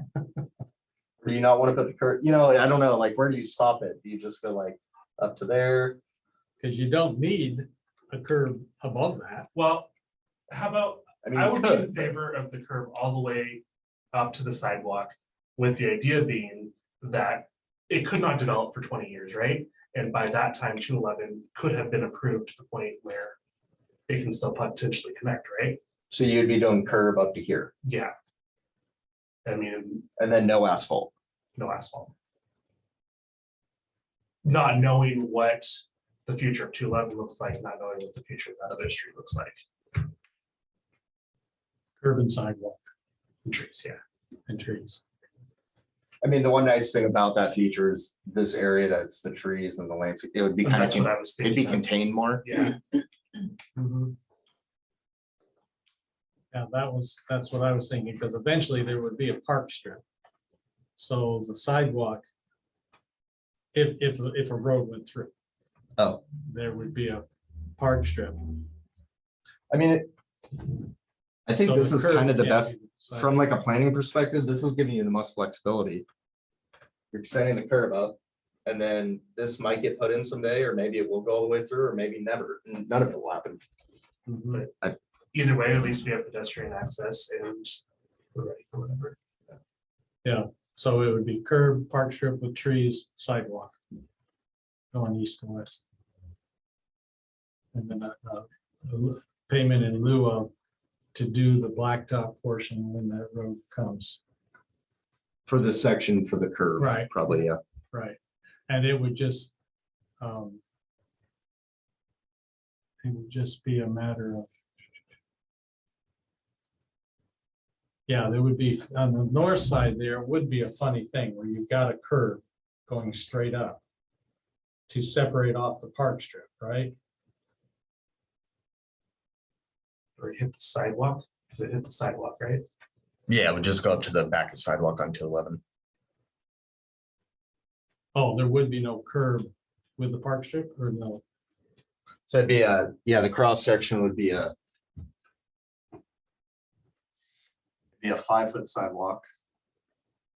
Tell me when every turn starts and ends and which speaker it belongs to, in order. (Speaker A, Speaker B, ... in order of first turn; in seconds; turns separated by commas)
Speaker A: 1.2-6.0, Speaker B: 6.6-9.5, Speaker C: 9.5-9.9, Speaker C: 10.5-13.6, Speaker A: 11.2-12.1, Speaker C: 14.1-23.4, Speaker C: 24.1-25.8, Speaker A: 26.1-27.7, Speaker C: 27.8-28.1, Speaker C: 29.4-30.1, Speaker A: 30.2-31.1, Speaker C: 31.6-32.1, Speaker C: 34.4-40.1, Speaker B: 42.0-42.8, Speaker C: 43.5-44.0, Speaker B: 44.5-45.0, Speaker A: 46.2-52.4, Speaker C: 50.6-51.9, Speaker C: 52.4-52.8, Speaker B: 53.8-54.1, Speaker B: 56.5-60.0, Speaker B: 61.0-62.2, Speaker B: 63.7-65.3, Speaker B: 66.4-67.2, Speaker B: 67.8-68.7, Speaker A: 69.7-70.1, Speaker A: 71.5-76.0, Speaker B: 71.6-73.3, Speaker A: 77.1-83.6, Speaker B: 84.3-84.6, Speaker C: 85.3-87.8, Speaker C: 88.3-89.5, Speaker B: 90.2-93.8, Speaker B: 94.9-95.8, Speaker B: 97.7-100.5, Speaker B: 101.1-104.2, Speaker A: 105.5-107.6, Speaker B: 106.8-108.2, Speaker B: 108.7-109.5, Speaker B: 110.2-110.6, Speaker B: 113.0-114.5, Speaker B: 118.1-123.8, Speaker B: 124.9-126.9, Speaker C: 130.2-132.6, Speaker A: 133.3-135.6, Speaker B: 138.2-141.2, Speaker A: 142.3-144.5, Speaker A: 148.0-149.2